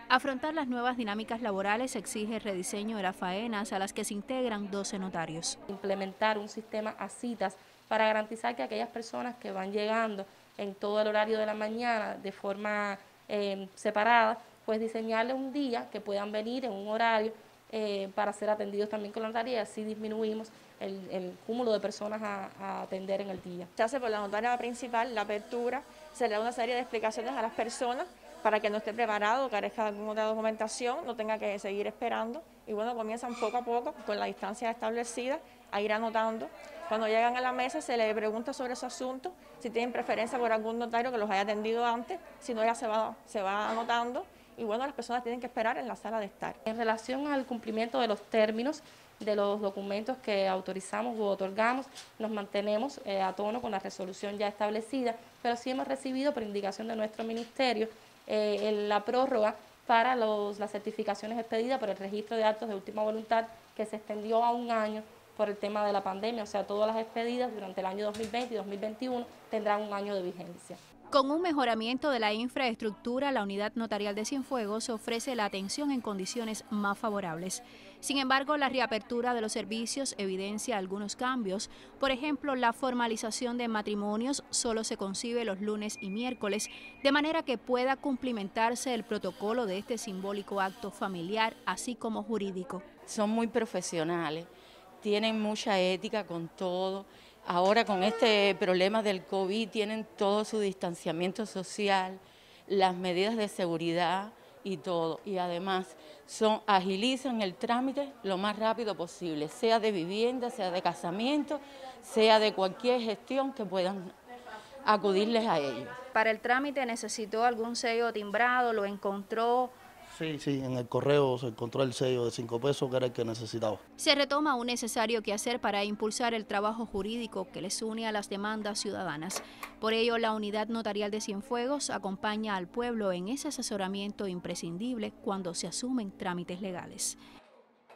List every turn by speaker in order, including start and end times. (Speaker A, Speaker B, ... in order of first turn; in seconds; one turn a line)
Speaker A: 0.1-5.6
Speaker B: 5.7-23.7
Speaker C: 23.8-46.6
Speaker B: 46.7-70.8
Speaker A: 71.1-92.8
Speaker D: 93.1-94.5
Speaker D: 95.0-114.1
Speaker D: 114.8-116.0
Speaker A: 116.1-119.7
Speaker E: 120.2-123.8
Speaker A: 124.0-137.2